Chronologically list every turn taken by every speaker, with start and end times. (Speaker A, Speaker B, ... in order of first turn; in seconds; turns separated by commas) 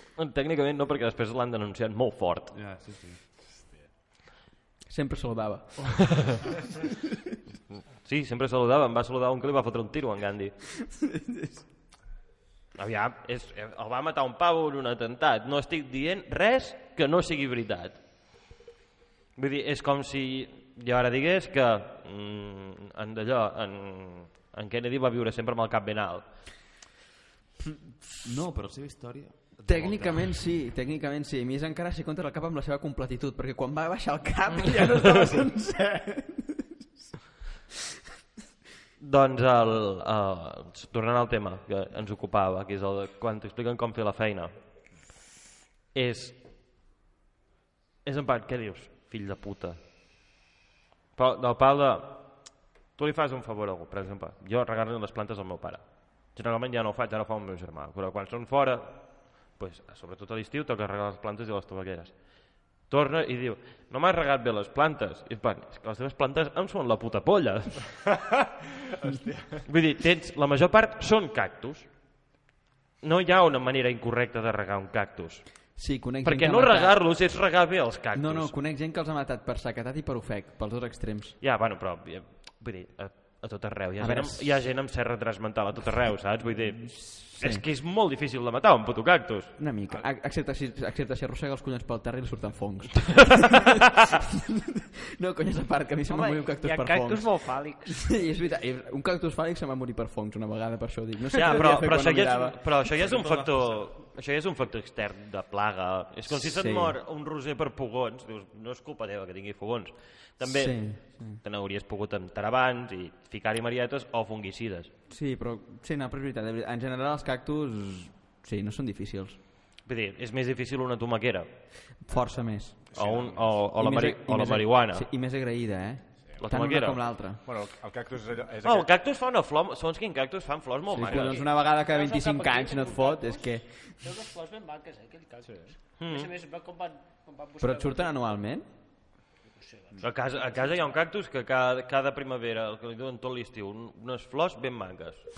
Speaker A: 0.2-2.5, Speaker B: 2.5-3.2, Speaker C: 4.9-6.2, Speaker A: 8.0-10.5, Speaker C: 10.9-11.6, Speaker A: 12.8-18.0, Speaker A: 19.4-26.3, Speaker B: 28.2-30.4, Speaker C: 29.7-36.7, Speaker A: 39.0-44.5, Speaker A: 45.9-46.4, Speaker A: 48.0-49.8, Speaker A: 51.2-62.2, Speaker A: 62.9-67.9, Speaker D: 68.2-69.6, Speaker A: 69.7-71.9, Speaker A: 73.0-75.4, Speaker C: 75.8-77.0, Speaker A: 76.2-78.5, Speaker C: 78.1-81.4, Speaker A: 81.4-89.5, Speaker C: 84.0-84.6, Speaker C: 86.9-87.6, Speaker C: 89.6-97.3, Speaker A: 93.2-94.0, Speaker E: 96.1-98.1, Speaker C: 97.9-102.6, Speaker A: 101.3-114.9, Speaker B: 103.0-103.7, Speaker C: 106.3-107.0, Speaker C: 110.4-111.4, Speaker C: 115.1-119.4, Speaker A: 119.9-121.5, Speaker C: 122.0-122.8, Speaker D: 122.9-123.5, Speaker A: 122.9-125.0, Speaker C: 123.8-127.4, Speaker A: 126.4-127.0, Speaker D: 127.5-128.9, Speaker A: 128.6-131.4, Speaker C: 130.9-134.1, Speaker E: 131.1-138.2, Speaker A: 136.0-136.3, Speaker C: 137.6-138.7, Speaker E: 139.6-140.9, Speaker A: 140.0-145.3